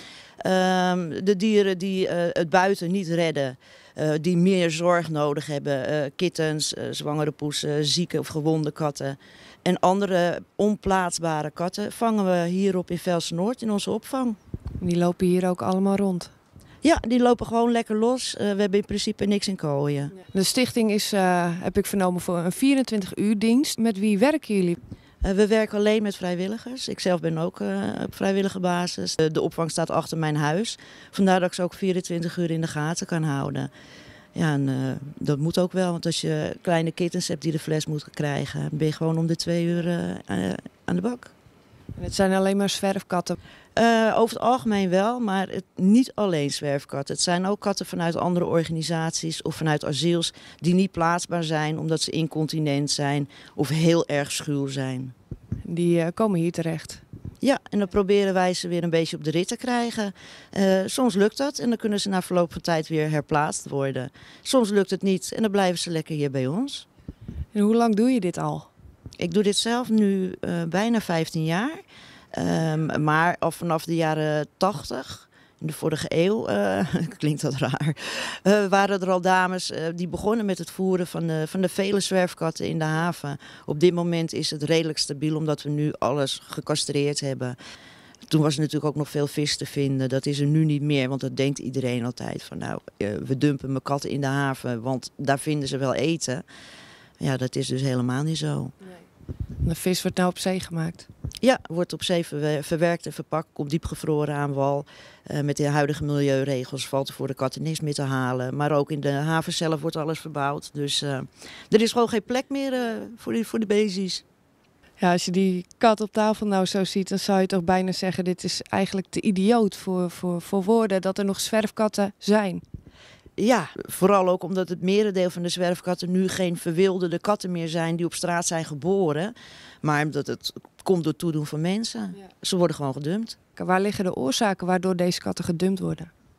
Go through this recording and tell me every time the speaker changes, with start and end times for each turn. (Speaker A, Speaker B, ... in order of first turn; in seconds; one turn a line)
Speaker A: 0.4-14.4
Speaker B: 14.8-16.3
Speaker A: 16.8-20.1
Speaker B: 20.3-24.8
Speaker A: 25.2-33.7
Speaker A: 34.3-41.3
Speaker B: 42.0-43.4
Speaker A: 43.8-55.1
Speaker B: 55.6-57.0
Speaker A: 57.4-66.8
Speaker B: 67.5-68.7
Speaker A: 69.2-71.8
Speaker A: 72.3-87.5
Speaker A: 88.3-96.4
Speaker A: 97.2-98.7
Speaker B: 99.6-101.1
Speaker A: 101.4-114.2
Speaker B: 115.0-122.6
Speaker A: 123.4-133.3
Speaker B: 133.6-136.1